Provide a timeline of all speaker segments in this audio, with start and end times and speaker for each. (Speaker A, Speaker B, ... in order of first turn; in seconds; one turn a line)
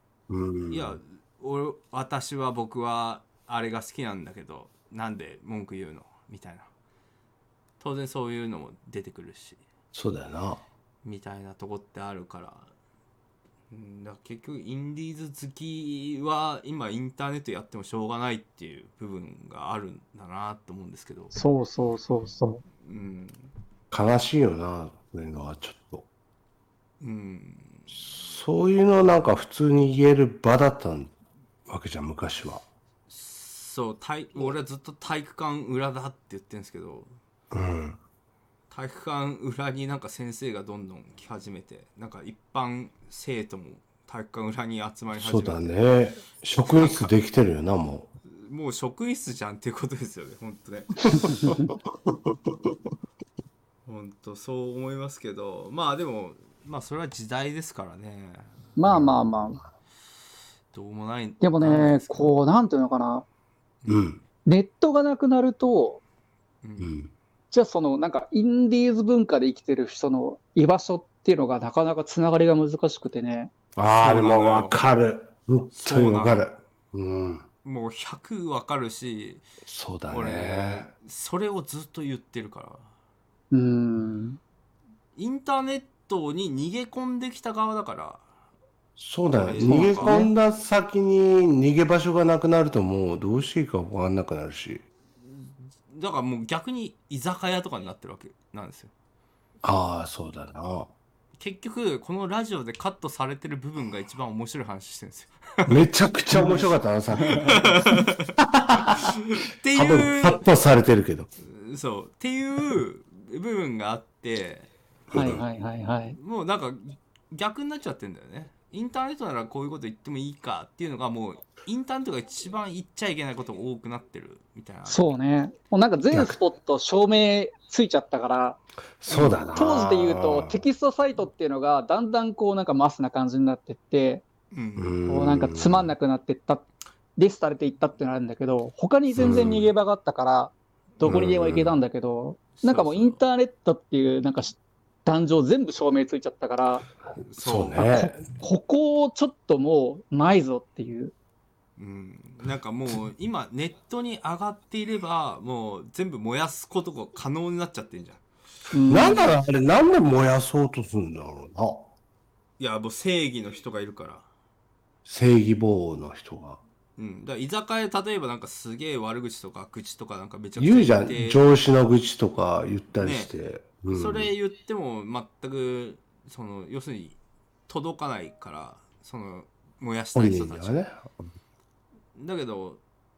Speaker A: 0.3-1.0
Speaker B: 0.7-6.7
Speaker B: 7.8-9.6
Speaker A: 9.9-10.6
Speaker B: 11.0-12.7
Speaker B: 13.7-21.4
Speaker C: 21.3-22.6
Speaker B: 22.8-23.5
Speaker A: 23.9-26.1
Speaker B: 27.0-28.0
Speaker A: 28.0-31.1
Speaker A: 31.7-32.6
Speaker B: 33.1-37.1
Speaker A: 37.5-38.0
Speaker B: 38.7-45.8
Speaker A: 45.1-48.1
Speaker B: 46.6-47.1
Speaker B: 48.3-51.3
Speaker A: 51.1-52.5
Speaker C: 51.2-51.7
Speaker B: 53.9-58.5
Speaker C: 58.8-59.6
Speaker A: 58.9-59.2
Speaker B: 60.7-62.3
Speaker C: 61.4-63.3
Speaker B: 63.8-64.2
Speaker A: 63.9-64.2
Speaker C: 64.5-66.0
Speaker B: 66.6-67.0
Speaker A: 66.8-67.1
Speaker C: 67.5-73.5
Speaker A: 73.8-77.5
Speaker B: 74.0-74.8
Speaker B: 75.8-76.5
Speaker B: 77.7-79.5
Speaker A: 79.7-80.9
Speaker B: 80.1-82.9
Speaker C: 83.5-84.4
Speaker B: 85.2-88.2
Speaker A: 89.0-94.8
Speaker B: 89.3-90.2
Speaker C: 89.5-90.3
Speaker B: 95.3-98.9
Speaker A: 99.6-100.9
Speaker B: 101.4-105.9
Speaker A: 105.7-109.1
Speaker C: 106.3-107.6
Speaker B: 107.4-110.5
Speaker A: 109.7-111.3
Speaker B: 111.4-114.7
Speaker A: 115.1-115.4
Speaker C: 115.1-116.2
Speaker B: 116.2-125.2
Speaker C: 124.9-128.6
Speaker A: 129.0-130.6
Speaker C: 129.1-134.2
Speaker B: 134.5-135.0
Speaker A: 134.8-135.9
Speaker C: 135.1-136.7
Speaker C: 137.2-146.9
Speaker A: 139.2-139.7
Speaker A: 141.0-141.8
Speaker B: 142.6-143.2
Speaker B: 147.2-147.9
Speaker A: 147.4-148.2
Speaker C: 147.8-151.1
Speaker B: 151.8-158.2
Speaker C: 158.7-159.3
Speaker A: 158.9-161.9
Speaker B: 162.6-164.3
Speaker A: 165.1-166.6
Speaker B: 167.0-171.4
Speaker A: 170.6-174.3
Speaker B: 173.0-173.3
Speaker B: 173.9-180.8
Speaker A: 180.2-181.3
Speaker B: 182.2-182.8